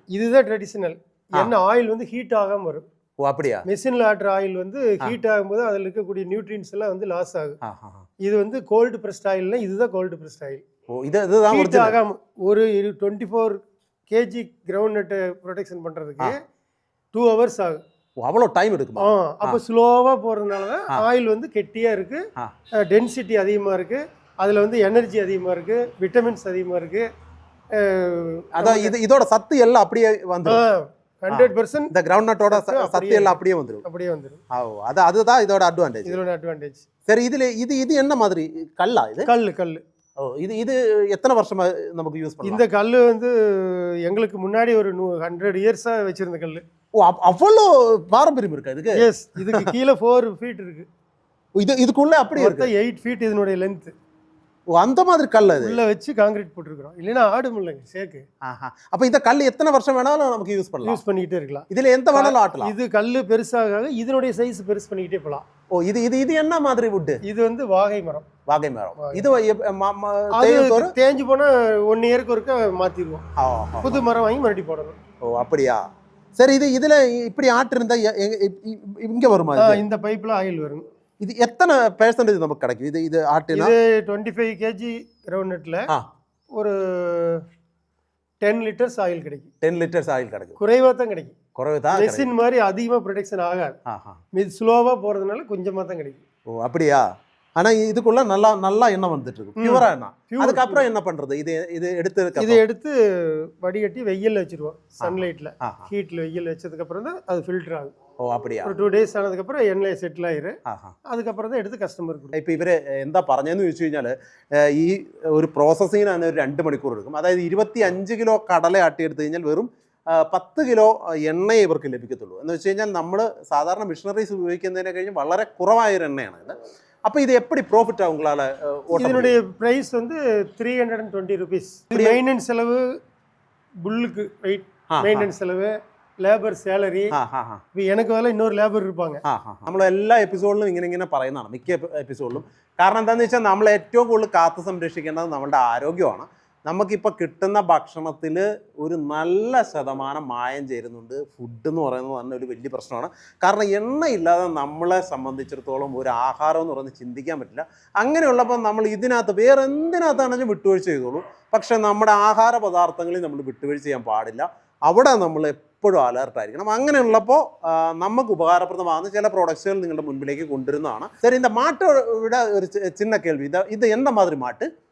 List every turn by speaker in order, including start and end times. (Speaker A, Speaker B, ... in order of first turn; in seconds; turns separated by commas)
Speaker A: 0.1-2.8, Speaker B: 3.2-3.7, Speaker A: 3.7-7.6, Speaker B: 7.6-8.1, Speaker A: 8.2-10.6, Speaker B: 10.9-12.0, Speaker A: 11.5-16.4, Speaker A: 17.1-17.8, Speaker B: 18.2-19.6, Speaker A: 19.0-22.2, Speaker A: 22.9-27.1, Speaker A: 27.7-28.9, Speaker B: 28.6-30.6, Speaker A: 30.4-31.9, Speaker B: 31.3-33.8, Speaker A: 32.5-34.4, Speaker B: 34.5-36.2, Speaker A: 36.0-36.9, Speaker B: 37.1-39.3, Speaker A: 39.3-39.8, Speaker B: 40.2-42.6, Speaker A: 42.4-46.6, Speaker B: 47.0-49.7, Speaker A: 49.0-50.9, Speaker B: 51.6-52.7, Speaker A: 52.4-53.9, Speaker B: 54.7-55.8, Speaker A: 55.6-58.2, Speaker B: 58.5-61.0, Speaker A: 60.8-65.4, Speaker B: 61.7-62.7, Speaker B: 65.7-67.2, Speaker A: 67.2-68.3, Speaker B: 68.5-70.9, Speaker A: 69.0-69.3, Speaker A: 70.3-73.2, Speaker B: 73.4-74.1, Speaker A: 73.8-75.0, Speaker B: 75.2-75.8, Speaker B: 76.4-79.8, Speaker A: 79.6-80.8, Speaker B: 81.2-83.7, Speaker A: 83.5-85.8, Speaker A: 86.6-87.4, Speaker A: 88.4-89.5, Speaker B: 89.6-90.6, Speaker A: 90.6-91.4, Speaker B: 91.6-92.3, Speaker A: 91.9-93.8, Speaker B: 93.9-94.2, Speaker A: 94.3-96.2, Speaker B: 96.5-97.1, Speaker B: 97.6-102.6, Speaker A: 99.6-100.8, Speaker A: 102.4-107.9, Speaker B: 105.0-105.9, Speaker B: 108.2-108.7, Speaker A: 108.6-112.4, Speaker B: 110.7-111.0, Speaker B: 112.3-126.6, Speaker B: 127.1-129.3, Speaker A: 128.9-132.9, Speaker B: 131.9-132.2, Speaker A: 133.8-137.2, Speaker B: 134.9-135.3, Speaker B: 137.1-137.6, Speaker A: 137.8-139.2, Speaker B: 139.3-174.7